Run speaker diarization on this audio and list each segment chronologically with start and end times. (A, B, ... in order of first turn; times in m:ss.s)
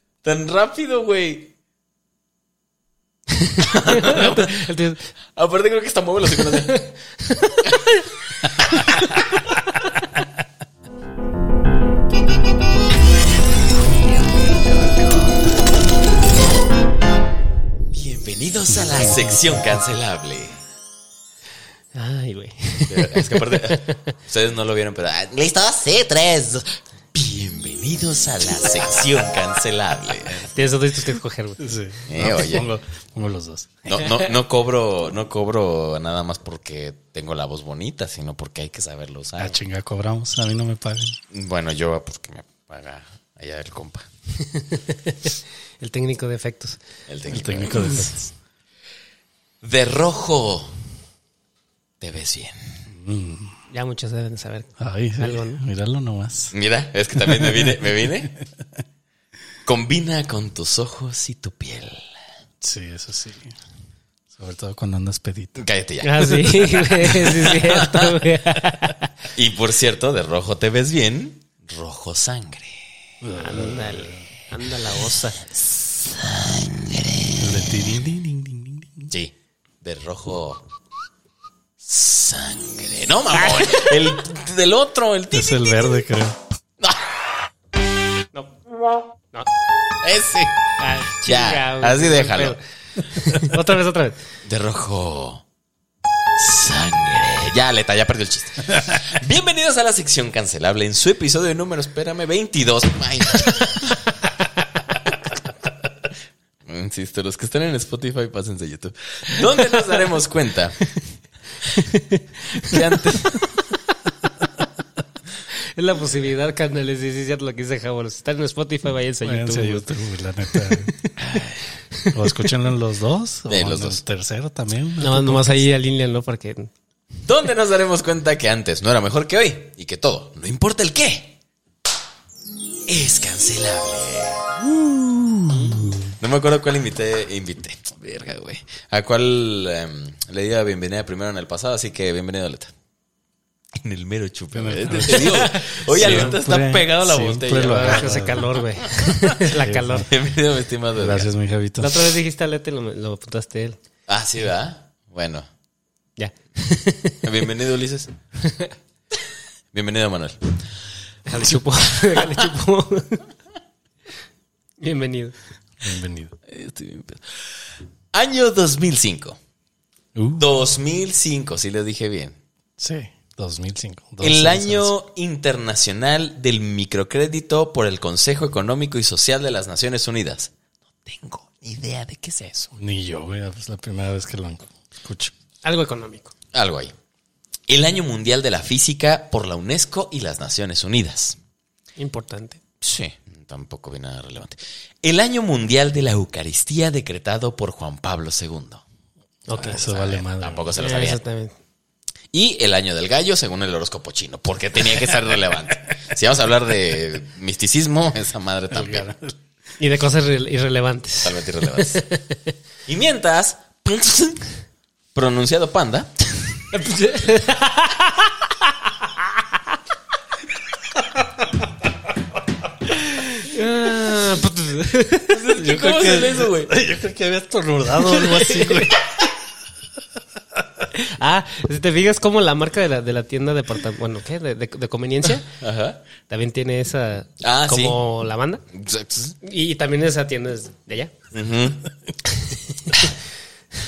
0:00.2-0:01.5 A
0:03.4-0:05.1 B
0:03.6-0:04.5 A
0:05.3-0:06.8 A
0:06.4-0:08.0 B
0:08.7-0:09.2 A
0:17.9-0:20.6 A
0:18.9-0:19.3 C
0:21.9-0:24.0 B
0:22.9-0:30.5 A
0:30.4-0:31.6 B
0:31.6-0:34.1 C
0:32.1-0:32.7 A
0:33.9-0:39.6 A
0:39.4-0:41.2 C
0:41.3-0:44.1 A
0:44.5-0:46.8 B
0:47.1-0:48.1 A
0:47.3-0:48.3 C
0:49.6-0:50.7 A
0:52.0-0:52.6 A
0:52.9-0:53.6 C
0:53.7-0:55.6 B
0:54.8-0:56.5 C
0:56.5-0:58.3 A
0:57.2-0:58.6 C
0:59.6-1:02.1 A
1:02.6-1:03.5 C
1:04.3-1:05.7 C
1:05.6-1:08.2 A
1:06.0-1:09.1 B
1:09.3-1:12.8 A
1:13.2-1:14.2 C
1:13.4-1:15.5 B
1:15.8-1:17.7 A
1:17.4-1:19.1 C
1:19.1-1:20.6 A
1:21.8-1:25.7 A
1:23.5-1:24.0 B
1:25.3-1:26.4 C
1:28.3-1:28.6 B
1:30.0-1:32.6 A
1:30.8-1:32.6 B
1:33.2-1:33.5 C
1:33.3-1:34.2 B
1:34.4-1:35.4 A
1:36.4-1:44.0 A
1:46.7-1:50.8 A
1:51.7-1:53.4 B
1:52.6-1:53.4 A
1:55.6-1:59.9 B
1:59.2-2:00.9 C
2:00.5-2:01.1 B
2:01.2-2:01.6 A
2:02.0-2:02.5 B
2:02.1-2:05.7 C
2:03.5-2:04.0 A
2:05.0-2:06.7 B
2:07.2-2:11.4 A
2:12.9-2:22.7 A
2:23.8-2:28.2 A
2:24.5-2:28.6 C
2:25.1-2:26.4 B
2:27.5-2:30.1 B
2:29.0-2:31.3 A
2:29.4-2:30.1 C
2:30.9-2:32.1 C
2:31.8-2:33.8 B
2:34.1-2:35.5 A
2:36.2-2:37.2 B
2:37.2-2:38.2 A
2:38.4-2:38.7 B
2:39.7-2:40.5 A
2:41.2-2:43.3 B
2:44.8-2:45.3 B
2:45.8-2:46.3 C
2:46.5-2:47.4 A
2:48.1-2:49.4 A
2:50.2-2:50.4 C
2:50.4-2:52.4 A
2:52.8-2:54.9 C
2:54.2-3:00.5 A
3:01.0-3:02.8 A
3:02.8-3:05.3 C
3:05.6-3:06.3 B
3:06.5-3:06.9 A
3:07.7-3:11.4 A
3:12.0-3:12.6 B
3:12.8-3:18.8 A
3:19.5-3:20.7 C
3:19.5-3:19.8 B
3:19.6-3:21.2 A
3:20.8-3:21.5 B
3:22.3-3:29.1 A
3:28.7-3:29.4 C
3:29.8-3:32.5 B
3:31.2-3:32.0 A
3:32.9-3:34.5 A
3:35.2-3:36.3 A
3:36.7-3:39.3 B
3:43.0-3:45.5 B
3:45.3-3:46.7 A
3:45.5-3:49.1 C
3:48.1-3:48.9 B
3:50.4-3:50.9 C
3:50.9-3:55.6 B
3:55.6-3:56.0 A
3:56.3-3:58.7 B
3:57.4-3:58.0 A
3:58.7-3:59.3 A
3:59.4-4:01.1 B
4:01.3-4:01.9 A